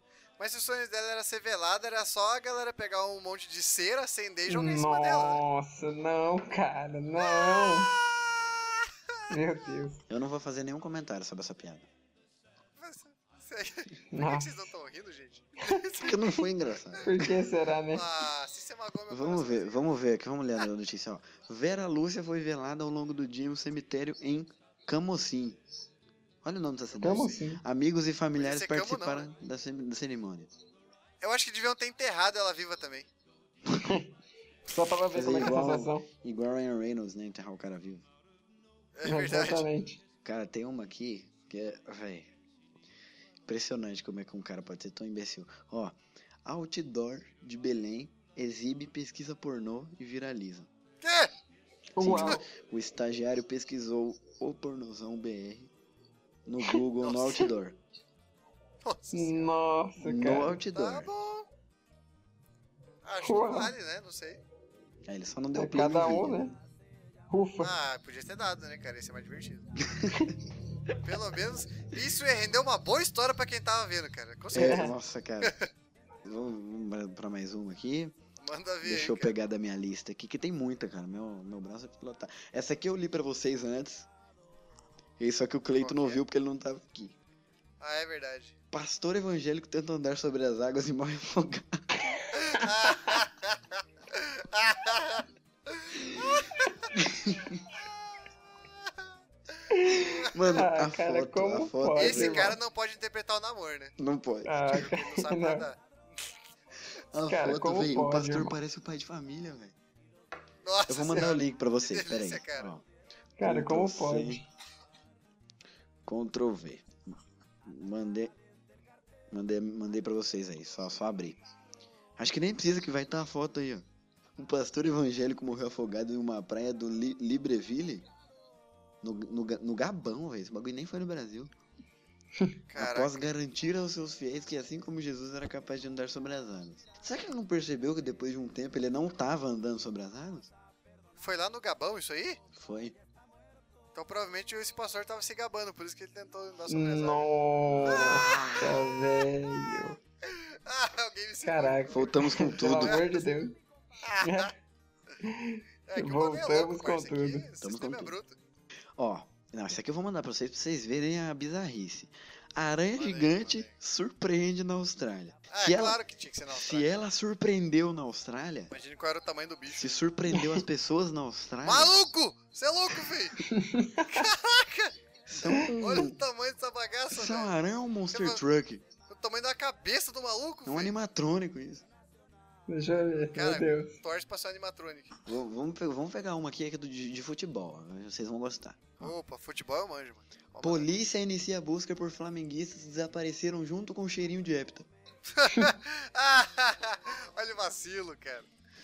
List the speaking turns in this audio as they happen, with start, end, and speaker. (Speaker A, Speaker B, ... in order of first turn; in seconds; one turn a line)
Speaker A: 0.4-5.4
Speaker B: 4.5-8.0
Speaker A: 7.2-8.1
Speaker A: 8.7-9.2
Speaker B: 9.3-10.0
Speaker C: 10.1-11.9
Speaker A: 12.8-16.2
Speaker B: 14.1-14.7
Speaker C: 16.0-17.3
Speaker B: 17.0-18.1
Speaker A: 17.9-19.8
Speaker C: 19.1-25.6
Speaker C: 26.4-30.5
Speaker A: 26.9-27.4
Speaker B: 27.0-27.6
Speaker A: 28.4-29.3
Speaker A: 31.2-33.1
Speaker B: 33.8-34.1
Speaker B: 34.7-36.0
Speaker C: 35.1-38.1
Speaker A: 38.9-39.7
Speaker B: 39.0-40.0
Speaker C: 40.2-42.3
Speaker C: 43.5-50.7
Speaker A: 51.0-51.3
Speaker B: 52.0-52.5
Speaker C: 52.0-55.7
Speaker C: 56.5-57.8
Speaker A: 57.0-57.4
Speaker A: 58.8-59.5
Speaker B: 59.1-60.6
Speaker C: 60.0-61.1
Speaker A: 60.7-61.5
Speaker A: 63.0-64.4
Speaker B: 63.2-63.7
Speaker C: 65.1-66.4
Speaker B: 65.5-66.5
Speaker B: 67.3-67.7
Speaker A: 67.6-69.7
Speaker C: 69.8-70.3
Speaker A: 71.0-75.7
Speaker C: 74.5-75.5
Speaker B: 74.5-74.9
Speaker C: 76.2-78.2
Speaker A: 78.4-79.3
Speaker C: 78.8-84.1
Speaker C: 85.2-87.2
Speaker A: 85.8-86.2
Speaker A: 87.8-88.5
Speaker C: 88.7-91.9
Speaker A: 92.3-93.6
Speaker A: 94.1-96.7
Speaker C: 96.9-97.6
Speaker B: 99.7-102.6
Speaker C: 100.0-102.6
Speaker A: 102.0-103.9
Speaker C: 104.0-104.8
Speaker B: 104.4-105.7
Speaker A: 104.7-105.8
Speaker C: 107.1-109.7
Speaker B: 107.3-108.6
Speaker A: 110.6-112.7
Speaker C: 110.9-112.8
Speaker B: 113.4-114.4
Speaker C: 113.4-114.4
Speaker C: 116.0-118.3
Speaker C: 119.3-121.4
Speaker C: 122.2-123.8
Speaker C: 124.4-128.1
Speaker C: 129.0-131.5
Speaker A: 132.7-133.3
Speaker C: 132.8-140.5
Speaker A: 141.2-142.4
Speaker C: 142.5-143.0
Speaker A: 143.9-147.3
Speaker B: 146.7-150.0
Speaker A: 147.8-148.8
Speaker C: 147.9-148.6
Speaker A: 150.2-153.3
Speaker B: 151.4-153.6
Speaker C: 151.9-153.0
Speaker A: 154.0-154.5
Speaker B: 154.2-154.5
Speaker B: 155.2-157.4
Speaker A: 155.9-158.4
Speaker C: 157.6-158.1
Speaker C: 159.0-166.0
Speaker A: 162.9-163.7
Speaker A: 165.5-166.9
Speaker C: 166.5-168.7
Speaker A: 168.7-170.0
Speaker C: 169.7-171.9
Speaker B: 170.3-170.6
Speaker A: 171.6-173.4
Speaker B: 173.4-174.3
Speaker A: 174.1-174.9
Speaker C: 175.3-176.2
Speaker A: 175.8-177.5
Speaker C: 177.1-178.8
Speaker A: 178.1-178.4
Speaker A: 179.1-180.9
Speaker C: 180.7-181.8
Speaker B: 182.7-183.9
Speaker A: 183.2-185.2
Speaker C: 185.2-189.1
Speaker A: 189.0-190.9
Speaker C: 190.6-194.9
Speaker A: 195.3-198.5